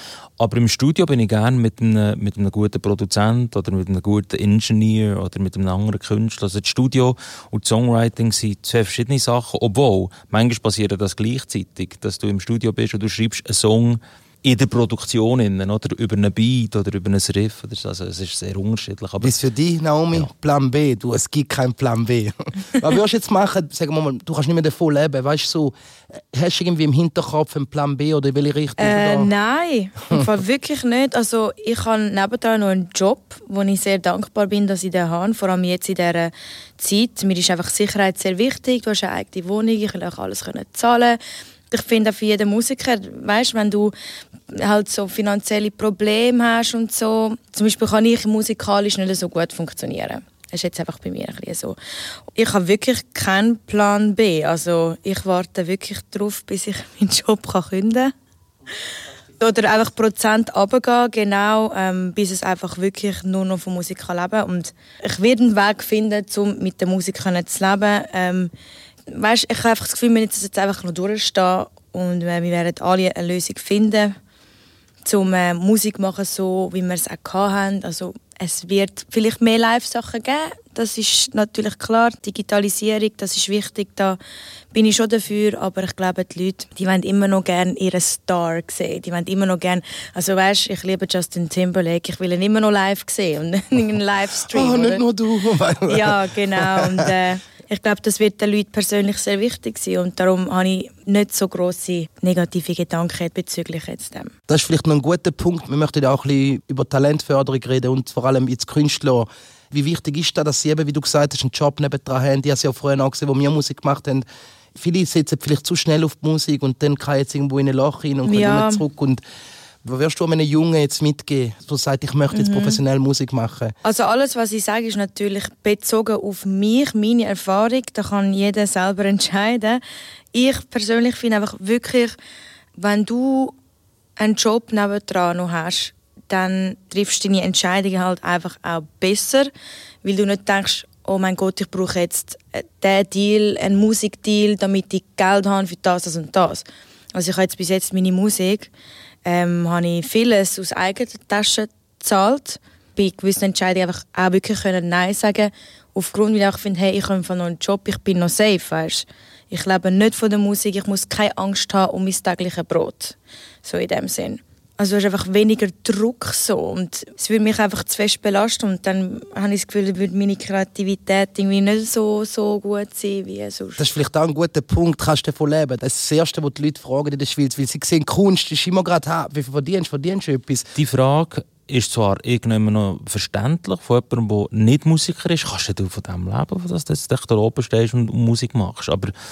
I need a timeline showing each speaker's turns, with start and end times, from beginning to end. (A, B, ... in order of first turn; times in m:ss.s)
0:00.4-0:19.3 A
0:19.2-0:29.3 B
0:28.8-0:41.2 C
0:41.7-0:43.9 C
0:44.5-0:51.8 C
0:52.3-0:58.1 C
0:59.4-1:08.5 C
1:09.1-1:14.2 C
1:15.0-1:24.2 C
1:24.7-1:35.0 C
1:34.5-1:37.1 B
1:35.8-1:44.3 C
1:44.5-1:59.2 B
1:58.2-1:58.8 C
1:59.8-2:03.7 B
2:02.3-2:02.8 C
2:03.8-2:09.8 C
2:10.3-2:12.2 C
2:12.8-2:13.6 C
2:14.2-2:19.5 C
2:20.0-2:28.7 C
2:29.2-2:53.8 C
2:53.8-3:00.7 B
3:00.8-3:09.1 A